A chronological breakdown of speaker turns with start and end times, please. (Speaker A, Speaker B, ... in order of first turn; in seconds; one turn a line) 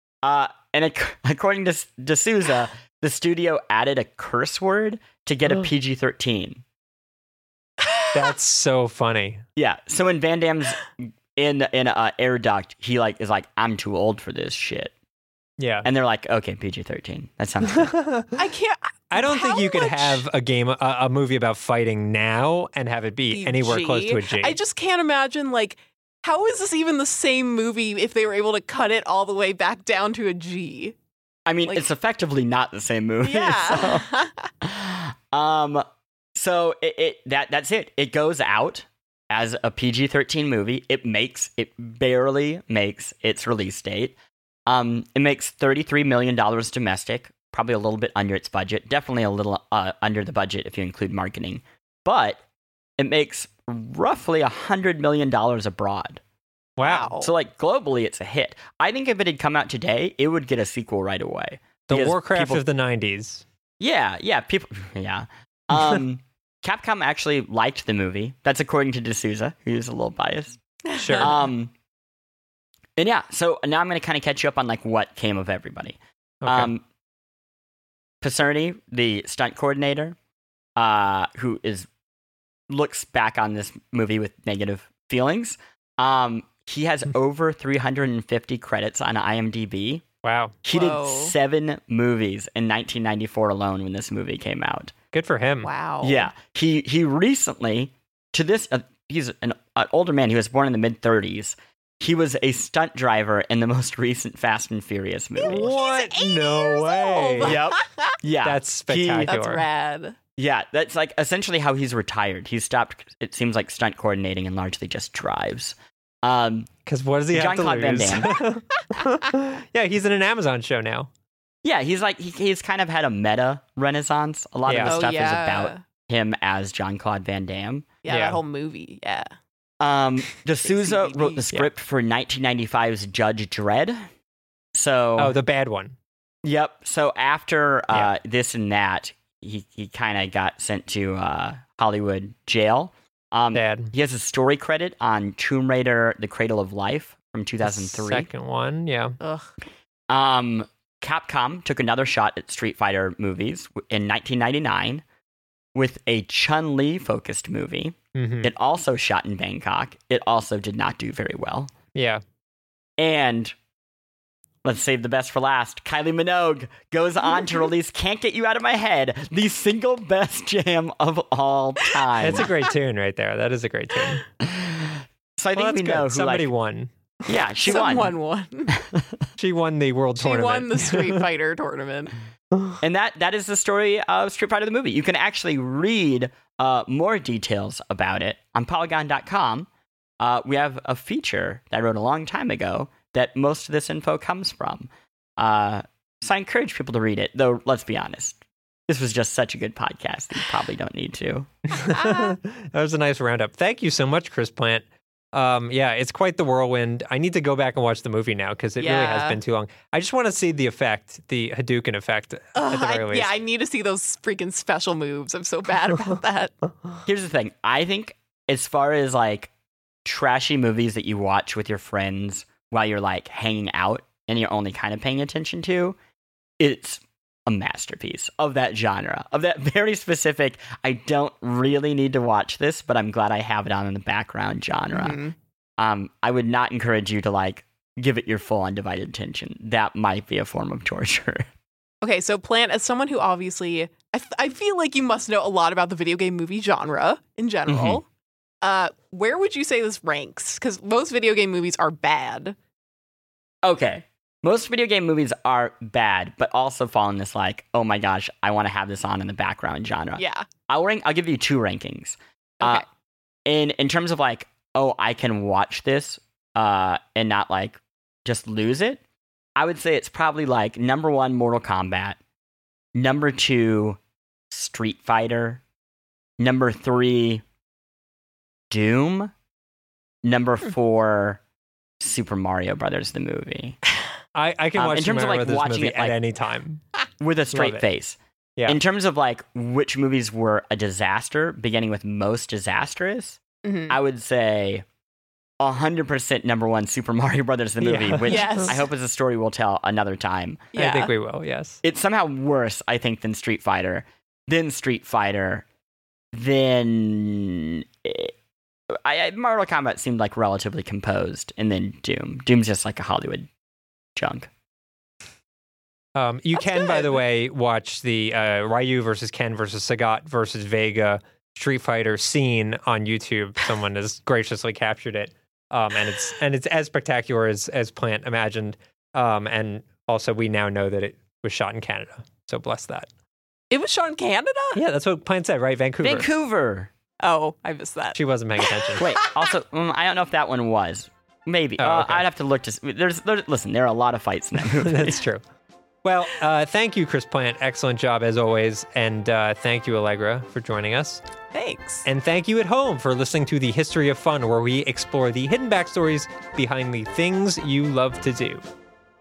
Speaker A: 0.2-6.6
Speaker B: 7.8-8.2
Speaker C: 8.1-9.4
Speaker A: 9.6-14.9
Speaker C: 15.6-15.9
Speaker A: 15.8-18.0
Speaker C: 17.8-18.4
Speaker B: 18.4-20.2
Speaker C: 19.1-24.6
Speaker B: 23.3-31.0
Speaker A: 31.5-34.1
Speaker B: 33.2-34.5
Speaker A: 34.6-35.9
Speaker A: 36.4-44.2
Speaker A: 44.7-52.4
Speaker A: 53.0-56.2
Speaker C: 56.8-57.1
Speaker B: 56.8-57.3
Speaker A: 57.2-62.6
Speaker C: 61.9-63.5
Speaker A: 63.8-70.6
Speaker B: 70.9-71.4
Speaker C: 71.0-71.3
Speaker A: 71.2-71.7
Speaker A: 73.0-76.8
Speaker C: 76.4-76.7
Speaker A: 78.2-80.2
Speaker A: 80.8-81.9
Speaker A: 82.7-90.0
Speaker C: 90.2-90.6
Speaker A: 90.7-94.9
Speaker B: 90.7-91.3
Speaker C: 95.1-95.7
Speaker B: 95.6-96.3
Speaker A: 96.0-105.7
Speaker B: 105.4-108.2
Speaker C: 105.4-107.6
Speaker A: 107.4-109.3
Speaker C: 108.4-109.7
Speaker B: 109.2-110.2
Speaker A: 110.4-116.7
Speaker C: 116.9-121.1
Speaker A: 117.3-118.4
Speaker A: 121.6-127.9
Speaker C: 124.7-125.0
Speaker B: 124.9-125.8
Speaker B: 128.0-129.3
Speaker C: 128.1-128.4
Speaker A: 129.8-134.0
Speaker B: 130.6-131.4
Speaker A: 134.8-135.4
Speaker C: 135.2-135.9
Speaker A: 136.4-148.3
Speaker C: 143.6-143.9
Speaker C: 147.6-149.2
Speaker B: 149.2-149.5
Speaker A: 150.1-155.0
Speaker A: 155.8-161.7
Speaker C: 158.1-158.5
Speaker C: 161.9-162.2
Speaker A: 163.0-163.5
Speaker A: 164.6-172.5
Speaker C: 172.2-174.2
Speaker A: 174.4-176.5
Speaker C: 175.6-176.9
Speaker A: 177.2-178.1
Speaker B: 177.6-178.8
Speaker A: 178.8-179.2
Speaker C: 179.4-181.2
Speaker B: 180.2-182.1
Speaker A: 182.8-189.7
Speaker A: 190.2-198.4
Speaker A: 198.9-201.5
Speaker C: 201.7-213.3
Speaker B: 201.9-202.4
Speaker B: 208.8-209.4
Speaker B: 212.6-216.6
Speaker A: 217.1-219.5
Speaker A: 220.1-226.0
Speaker A: 226.6-235.2
Speaker B: 235.0-235.3
Speaker A: 235.8-241.5
Speaker B: 242.0-248.0
Speaker A: 247.7-248.0
Speaker B: 248.6-252.6
Speaker A: 253.6-262.8
Speaker B: 260.2-260.5
Speaker A: 263.5-269.0
Speaker A: 269.6-272.2
Speaker A: 272.9-274.0
Speaker A: 274.5-275.6
Speaker A: 276.4-277.4
Speaker A: 278.7-279.3
Speaker A: 280.2-281.4
Speaker A: 282.0-283.8
Speaker C: 284.4-286.8
Speaker A: 284.8-286.2
Speaker A: 287.2-294.8
Speaker C: 287.5-287.8
Speaker B: 293.6-294.0
Speaker A: 295.6-300.7
Speaker C: 297.8-298.7
Speaker B: 298.3-298.9
Speaker B: 300.7-301.1
Speaker C: 300.8-301.8
Speaker A: 301.8-305.6
Speaker A: 306.3-308.3
Speaker A: 309.0-313.5
Speaker A: 314.2-314.5
Speaker C: 316.2-333.1
Speaker B: 316.7-317.1
Speaker B: 333.7-334.8
Speaker C: 334.8-336.3
Speaker A: 336.0-336.9
Speaker B: 337.2-339.4
Speaker C: 338.1-339.1
Speaker A: 339.0-345.2
Speaker C: 341.8-342.3
Speaker C: 344.6-345.4
Speaker C: 346.0-351.2
Speaker B: 351.5-352.1
Speaker C: 352.1-358.7